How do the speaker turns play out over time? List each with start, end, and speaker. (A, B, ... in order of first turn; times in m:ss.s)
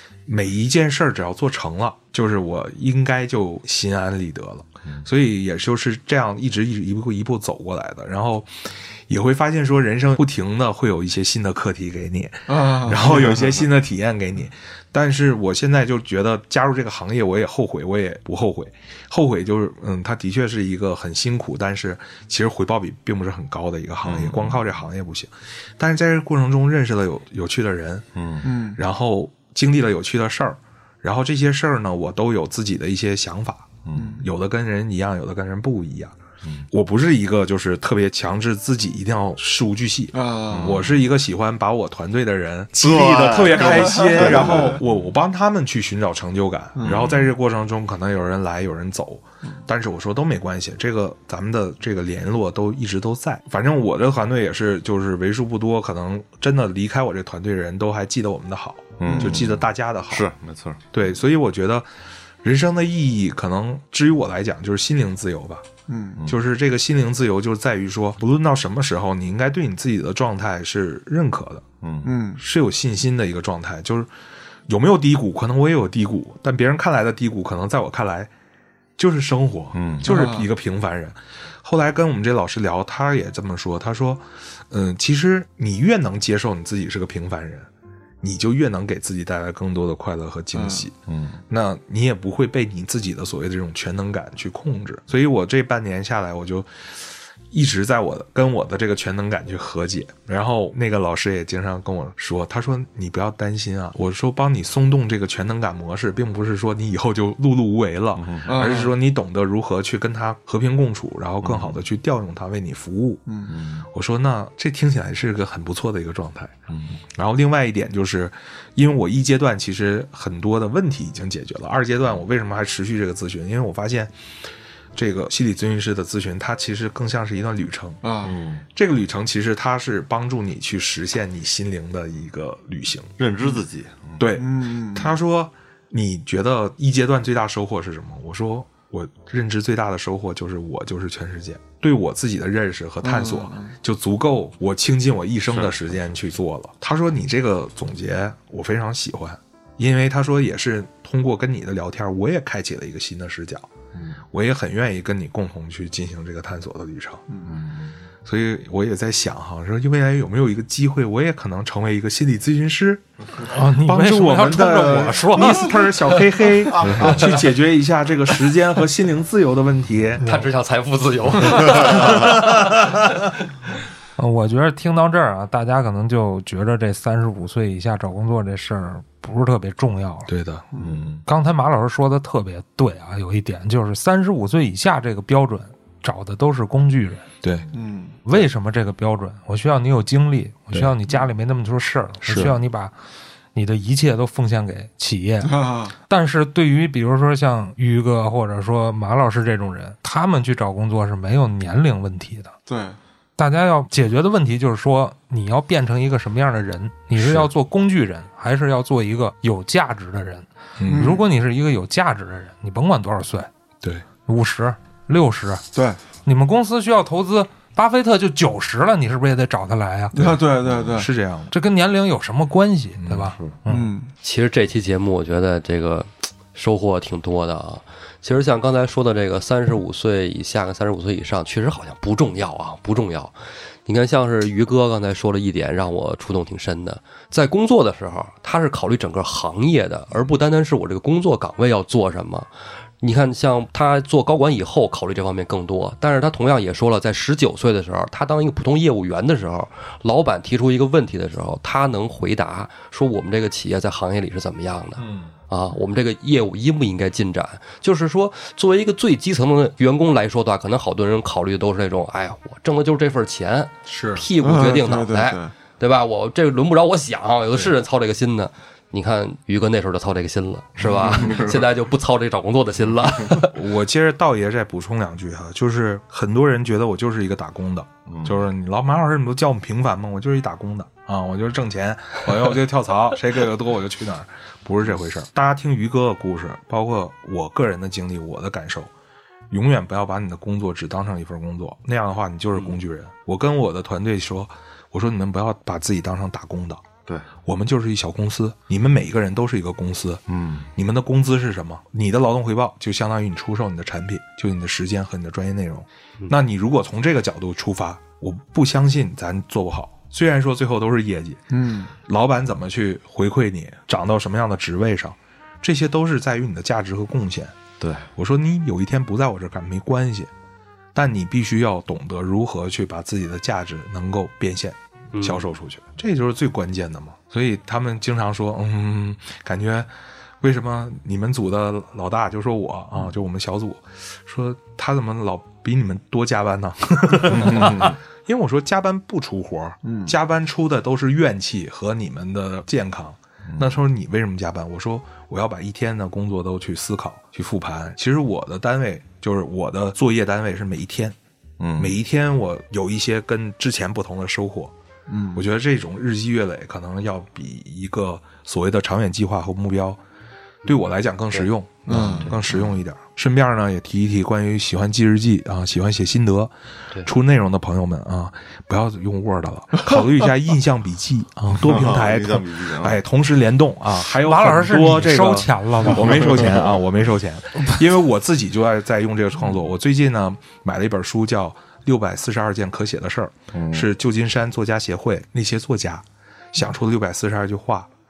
0:00.3-0:08.5 A
0:09.1-0:28.1 A
0:12.5-0:13.6 B
0:24.0-0:24.7 C
0:28.2-0:28.5 C
0:28.4-0:28.8 B
0:28.6-0:36.2 A
0:33.8-0:34.2 C
0:34.0-0:34.3 B
0:36.7-1:00.3 A
0:40.1-0:40.8 B
0:40.5-0:41.0 C
0:42.8-0:45.1 C
0:44.0-0:44.5 B
0:46.8-0:47.3 B
0:46.8-0:47.1 C
0:59.0-1:00.8 C
0:59.1-0:59.5 B
1:00.9-1:01.9 A
1:02.4-1:05.6 A
1:05.9-1:06.2 B
1:06.3-1:11.6 A
1:11.8-1:12.1 C
1:12.0-1:12.4 B
1:12.4-1:14.1 A
1:14.7-1:18.3 A
1:19.0-1:27.7 A
1:19.7-1:20.1 C
1:20.0-1:20.5 B
1:28.2-1:31.0 A
1:30.5-1:30.9 B
1:31.1-1:31.4 C
1:31.5-1:53.2 A
1:48.2-1:48.5 C
1:48.5-1:48.9 B
1:51.4-1:51.8 C
1:53.5-1:53.9 C
1:53.8-1:56.6 A
1:56.7-1:57.0 C
1:57.2-2:04.1 A
2:05.0-2:08.0 A
2:08.0-2:08.3 B
2:08.2-2:08.6 C
2:08.7-2:13.2 A
2:13.2-2:14.2 C
2:14.2-2:33.7 A
2:14.3-2:15.2 B
2:23.0-2:23.7 B
2:25.5-2:25.8 C
2:34.3-2:37.2 A
2:37.5-2:38.0 C
2:38.2-2:50.2 A
2:43.4-2:46.3 D
2:46.8-2:47.2 C
2:46.8-2:47.2 D
2:50.2-2:52.7 E
2:54.2-3:00.3 D
3:00.3-3:00.7 A
3:00.8-3:01.2 C
3:01.3-3:07.3 D
3:07.4-3:07.7 A
3:07.7-3:08.2 B
3:08.3-3:12.9 D
3:12.2-3:12.6 A
3:13.6-3:15.6 D
3:15.4-3:15.9 B
3:16.1-3:22.5 D
3:22.7-3:23.0 B
3:23.4-3:33.5 D
3:27.2-3:27.5 A
3:30.8-3:31.2 A
3:30.9-3:31.2 B
3:34.3-3:35.6 D
3:35.7-3:36.0 B
3:36.2-3:40.4 D
3:40.1-3:41.1 B
3:40.7-3:41.0 C
3:40.9-3:41.5 A
3:41.5-3:43.9 D
3:43.0-3:43.4 A
3:43.7-3:44.1 B
3:44.2-4:02.5 E
4:03.0-4:33.6 E
4:15.0-4:15.3 A
4:23.9-4:24.3 A
4:24.4-4:25.5 B
4:30.8-4:31.3 B
4:30.9-4:31.2 A
4:31.2-4:31.5 C
4:33.5-4:48.9 A
4:38.1-4:38.4 C
4:49.5-4:56.8 A
4:57.4-5:00.2 A
5:00.3-5:00.7 C
5:00.8-5:11.4 A
5:11.5-5:11.9 B
5:12.0-5:17.6 A
5:17.8-5:18.1 C
5:18.2-5:20.3 A
5:21.0-5:29.9 A
5:25.2-5:25.4 E
5:30.4-5:51.2 A
5:37.3-5:38.0 C
5:39.8-5:40.2 B
5:43.5-5:43.8 C
5:51.6-5:52.0 C
5:51.8-5:54.7 A
5:55.1-5:55.4 B
5:55.4-6:00.0 A
6:00.6-6:27.9 A
6:01.9-6:02.4 B
6:01.9-6:02.7 C
6:11.6-6:13.0 C
6:14.2-6:16.7 D
6:23.5-6:23.9 C